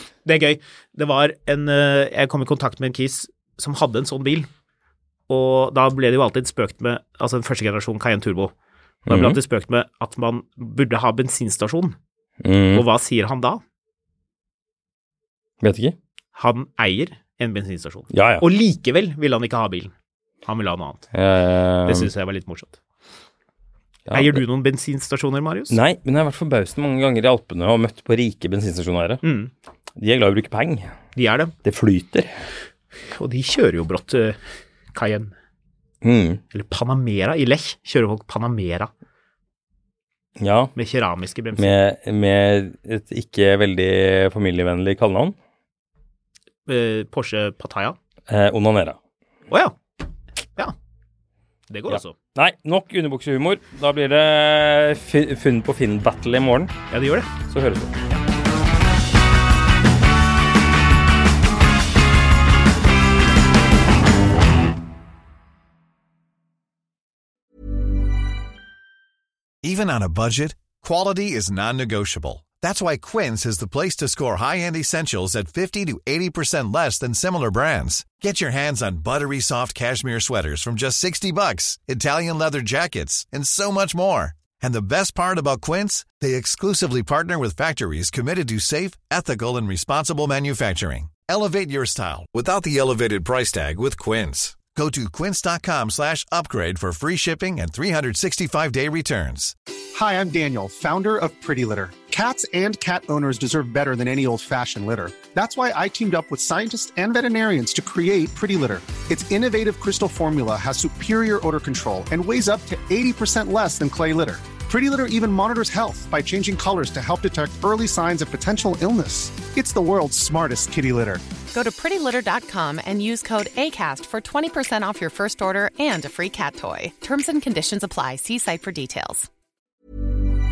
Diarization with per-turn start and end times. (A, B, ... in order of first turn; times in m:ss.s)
0:00.2-0:04.5 A
0:05.3-0:08.5 A
0:09.1-0:09.4 B
0:09.1-0:12.0 A
0:12.4-0:12.8 B
0:12.7-0:13.6 A
0:15.6-0:16.0 B
0:16.3-0:19.9 A
0:18.1-0:18.4 B
0:20.4-0:21.0 A
0:21.1-0:22.1 B
0:21.8-0:22.8 A
0:24.1-0:24.4 B
0:24.1-0:25.8 A
0:25.7-0:29.2 B
0:29.2-0:29.5 A
0:30.0-0:30.9 B
0:31.2-0:31.5 A
0:31.6-0:32.3 B
0:33.1-0:34.4 A
0:34.9-0:35.3 A
0:36.0-0:36.4 B
0:36.5-0:38.9 A
0:40.4-0:40.7 B
0:40.7-0:41.7 A
0:41.6-0:45.3 B
0:46.7-0:48.0 A
0:48.3-0:49.0 B
0:49.5-0:49.8 A
0:51.7-0:52.1 A
0:51.9-0:56.7 B
0:56.9-0:57.3 A
0:57.4-0:57.9 B
1:09.6-1:39.5 C
1:39.9-2:01.2 D
2:01.5-2:09.3 E